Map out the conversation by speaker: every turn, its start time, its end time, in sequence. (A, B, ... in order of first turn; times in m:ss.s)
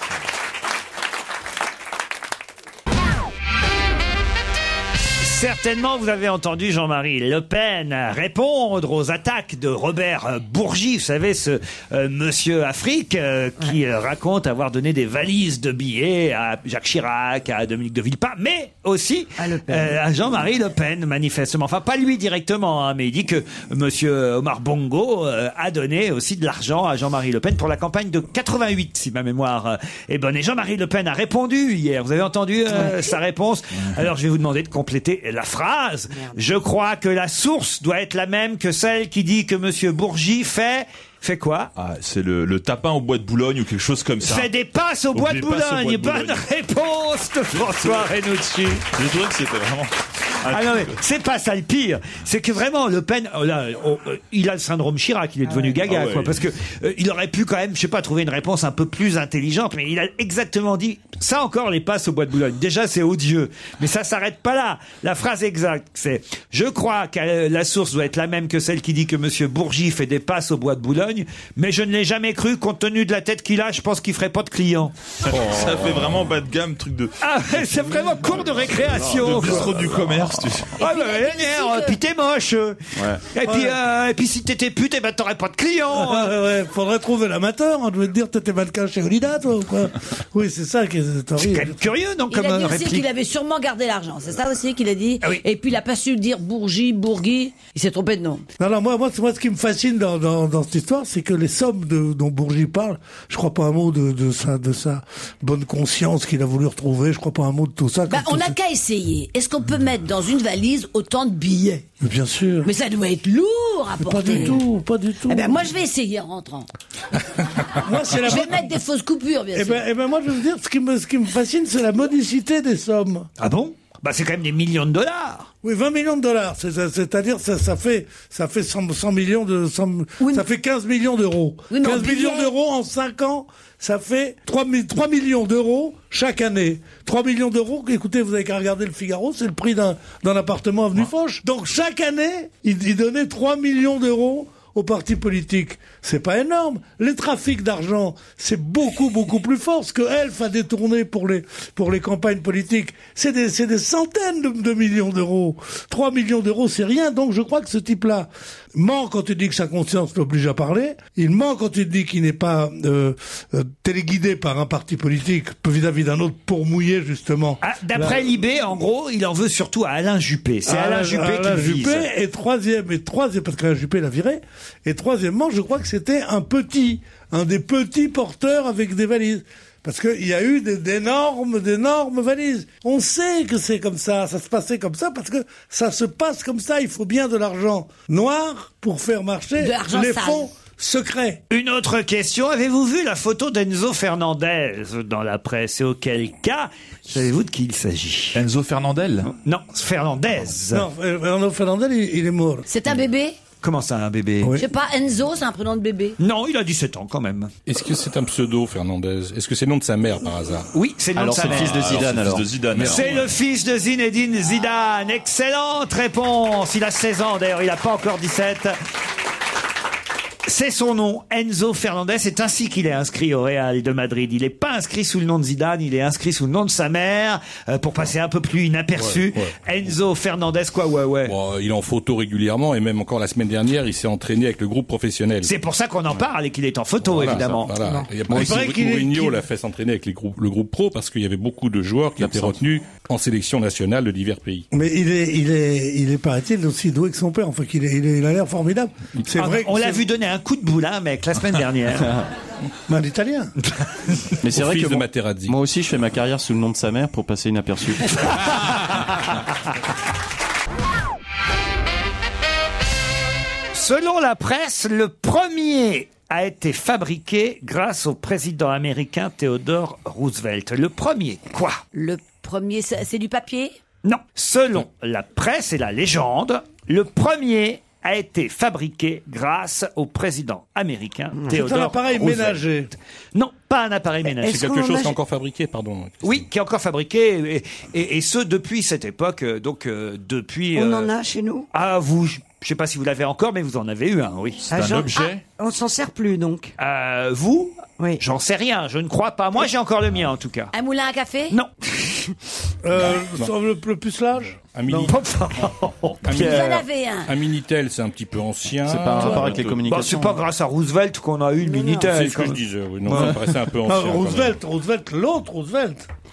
0:05.2-0:41.7 A
0:19.4-0:20.0 B
0:36.1-0:36.4 B
0:41.8-0:44.5 C
0:44.2-0:48.8 A
0:45.1-0:46.4 C
0:47.5-0:48.1 C
0:48.9-0:51.0 C
0:50.5-1:14.9 A
0:55.4-0:55.8 B
0:55.8-0:56.4 C
1:15.2-1:20.8 C
1:15.3-1:16.2 D
1:17.2-1:19.9 A
1:20.8-1:26.3 A
1:20.8-1:22.0 E
1:23.0-1:23.2 F
1:23.4-1:23.8 G
1:25.9-1:31.8 G
1:31.4-1:33.1 A
1:32.3-1:38.4 E
1:38.6-1:48.6 G
1:48.1-1:51.8 E
1:52.0-1:52.7 G
1:52.6-1:54.6 E
1:54.0-1:55.6 G
1:55.2-1:56.7 E
1:57.8-1:58.8 G
1:58.2-1:59.8 E
1:59.5-2:03.3 G
2:03.4-2:05.5 A
2:05.6-2:48.3 G
2:10.2-2:10.4 E
2:11.7-2:12.5 E
2:47.6-2:52.1 A
2:50.7-3:11.4 G
3:09.6-3:10.5 E
3:11.5-3:18.4 A
3:18.3-3:19.3 C
3:19.3-3:20.9 A
3:20.7-3:22.7 G
3:22.7-3:23.4 E
3:23.6-3:24.6 A
3:24.4-3:24.7 G
3:24.5-3:26.2 E
3:26.2-3:27.5 A
3:27.6-3:30.7 D
3:30.7-3:31.9 A
3:31.2-3:32.5 F
3:31.5-3:33.3 C
3:32.7-3:33.1 D
3:32.8-3:38.8 A
3:40.4-3:51.3 A
3:49.0-3:49.5 D
3:51.2-3:55.5 D
3:55.4-3:57.7 A
3:57.0-4:04.7 D
3:58.3-3:59.4 G
4:02.2-4:02.6 F
4:04.7-4:10.0 G
4:09.4-4:12.1 A
4:12.9-4:13.5 G
4:14.4-4:18.2 F
4:14.5-4:15.6 D
4:23.7-4:31.8 A
4:31.9-4:33.8 E
4:34.0-4:42.6 A
4:41.5-4:42.9 G
4:43.3-4:44.7 A
4:44.4-4:45.1 B
4:44.4-4:46.5 D
4:46.2-4:51.1 A
4:50.7-4:51.7 B
4:51.7-4:54.7 A
4:54.7-4:56.7 B
4:54.7-4:55.4 C
4:56.8-5:00.7 A
5:00.7-5:01.6 E
5:01.5-5:02.3 A
5:02.8-5:05.1 G
5:03.0-5:03.5 D
5:04.6-5:05.2 D
5:04.9-5:06.7 A
5:06.2-5:09.8 D
5:06.3-5:07.3 E
5:08.8-5:10.4 F
5:09.2-5:12.6 A
5:11.6-5:12.1 B
5:12.0-5:14.6 D
5:13.0-5:16.1 G